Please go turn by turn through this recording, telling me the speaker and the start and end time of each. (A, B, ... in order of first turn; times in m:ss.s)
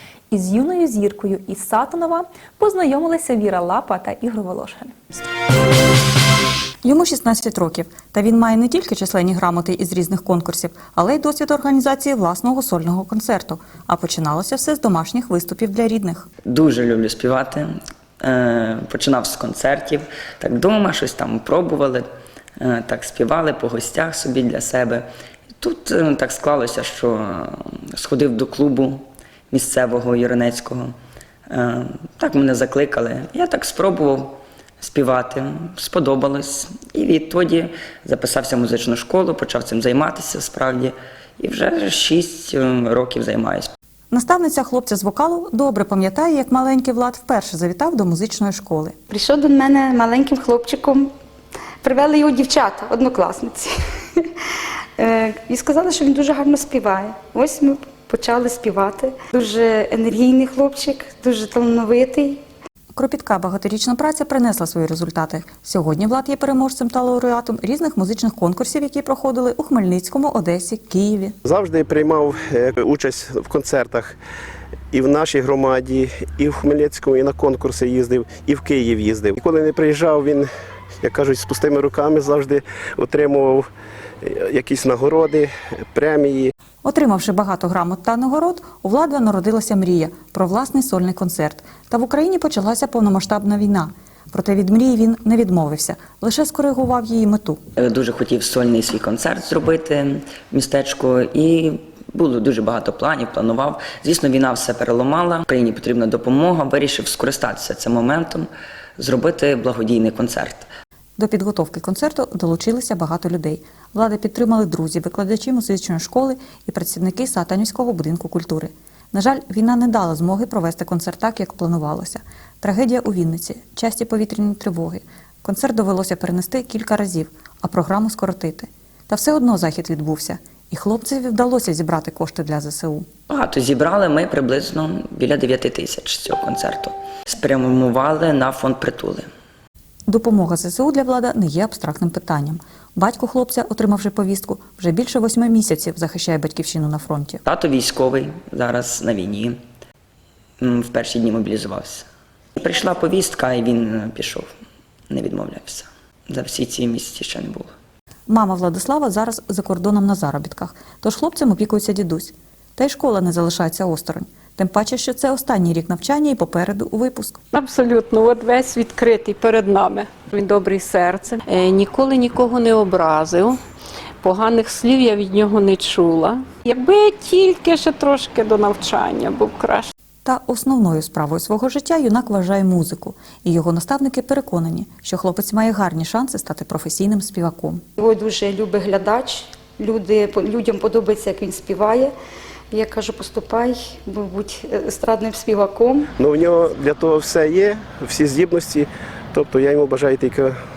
0:00.3-0:05.0 A
0:06.8-0:16.3 B
0:16.4-0:22.0 C
0:22.6-0:25.0 C
0:25.6-0:30.9 C
0:31.5-0:43.7 C
0:44.1-0:49.0 B
0:49.1-0:51.1 D
0:51.8-0:54.3 D
0:55.0-1:02.4 D
1:02.9-1:11.3 B
1:11.4-1:14.1 E
1:14.9-1:20.5 E
1:21.0-1:23.7 E
1:24.2-1:26.5 E
1:26.8-1:37.6 B
1:37.8-1:50.7 C
1:51.2-2:13.1 B
2:13.3-2:19.3 C
2:20.1-2:27.4 B
2:27.4-2:29.6 C
2:30.6-2:32.0 C
2:32.6-2:34.5 C
2:35.1-2:37.7 C
2:38.3-2:47.4 B
2:47.5-2:53.6 F
2:54.2-2:59.9 F
3:00.2-3:07.8 B
3:08.0-3:12.1 D
3:12.7-3:16.1 D
3:16.2-3:20.5 E